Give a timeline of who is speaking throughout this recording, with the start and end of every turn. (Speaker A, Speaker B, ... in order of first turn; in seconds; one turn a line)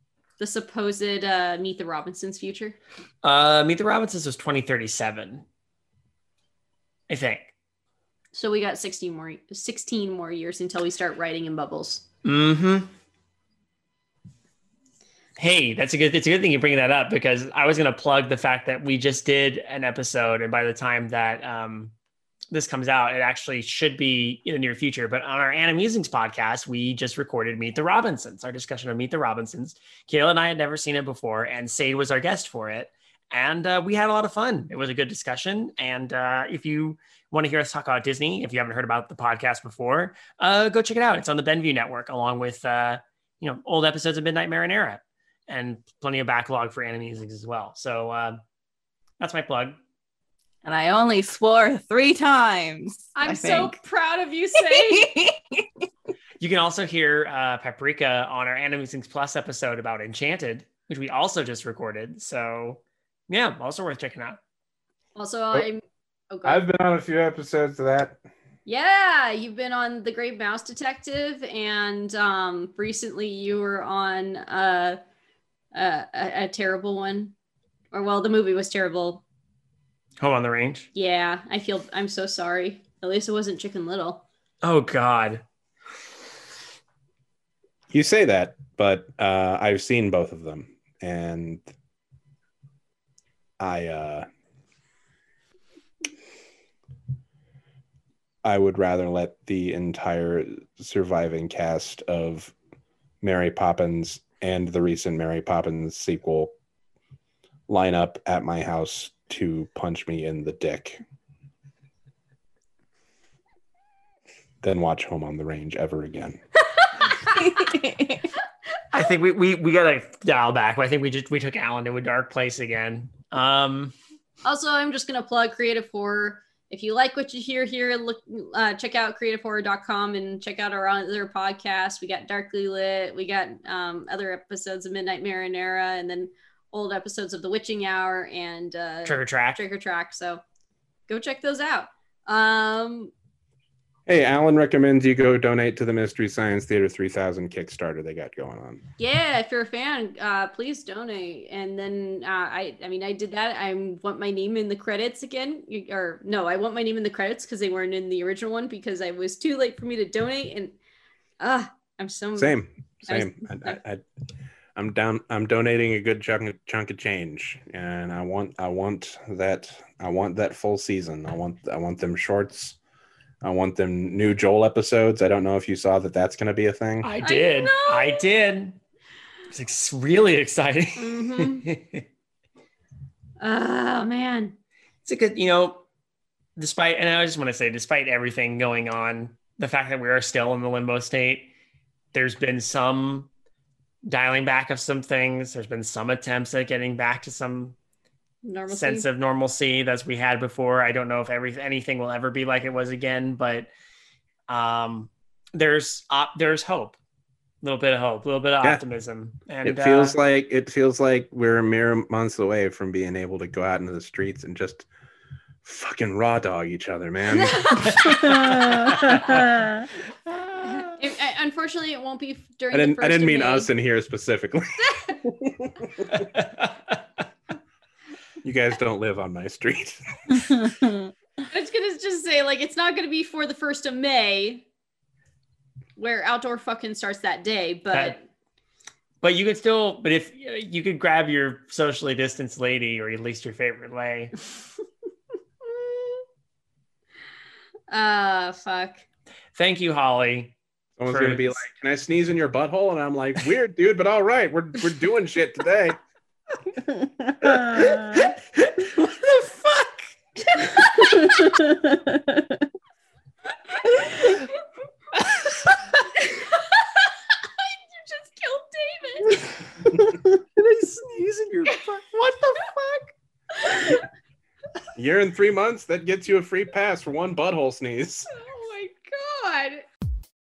Speaker A: 0.4-2.8
Speaker B: 3.2-5.4
Speaker B: 7.1-7.5
Speaker A: 8.3-12.0
Speaker B: 12.2-12.9
Speaker B: 15.4-21.9
Speaker B: 22.5-48.4
Speaker B: 49.2-49.8
Speaker C: 50.6-53.8
Speaker A: 53.1-55.1
Speaker C: 54.7-55.6
Speaker B: 56.4-64.4
Speaker A: 65.2-66.6
Speaker D: 66.4-68.2
Speaker A: 68.7-75.0
Speaker A: 75.7-77.3
Speaker A: 77.9-79.2
Speaker B: 80.2-80.9
Speaker A: 80.9-84.2
Speaker B: 84.6-85.4
Speaker D: 87.9-91.7
Speaker D: 93.6-94.2
Speaker D: 98.4-102.5
Speaker D: 103.2-106.5
Speaker D: 107.7-111.0
Speaker D: 114.6-116.4
Speaker C: 117.3-118.3
Speaker B: 118.9-123.9
Speaker A: 124.4-140.4
Speaker B: 139.0-139.6
Speaker A: 141.1-143.1
Speaker D: 144.1-148.8
Speaker A: 149.0-160.7
Speaker A: 161.4-163.8
Speaker D: 162.3-164.0
Speaker D: 164.7-172.8
Speaker D: 173.4-177.1
Speaker B: 177.0-178.8
Speaker A: 177.2-178.2
Speaker B: 179.5-182.0
Speaker A: 181.0-181.7
Speaker A: 183.4-184.5
Speaker B: 185.0-185.8
Speaker B: 186.6-191.5
Speaker B: 192.1-193.3
Speaker B: 194.0-197.8
Speaker A: 198.4-199.1
Speaker B: 198.7-203.7
Speaker B: 204.5-207.0
Speaker B: 207.6-210.2
Speaker D: 209.6-214.9
Speaker D: 215.6-218.5
Speaker A: 217.3-218.2
Speaker B: 217.8-219.5
Speaker C: 218.1-219.9
Speaker B: 220.3-220.8
Speaker A: 220.6-223.7
Speaker D: 222.7-226.3
Speaker A: 224.8-225.2
Speaker B: 226.2-227.0
Speaker D: 228.4-230.7
Speaker C: 230.6-230.9
Speaker A: 231.5-234.7
Speaker A: 236.0-238.2
Speaker B: 239.2-244.3
Speaker A: 247.9-249.1
Speaker B: 249.6-250.5
Speaker D: 251.0-256.0
Speaker B: 251.1-251.6
Speaker C: 256.9-258.3
Speaker B: 257.4-261.4
Speaker C: 261.1-262.5
Speaker B: 265.2-266.0
Speaker A: 266.2-269.4
Speaker B: 270.6-273.1
Speaker A: 273.6-274.0
Speaker D: 274.9-278.3
Speaker A: 278.3-279.8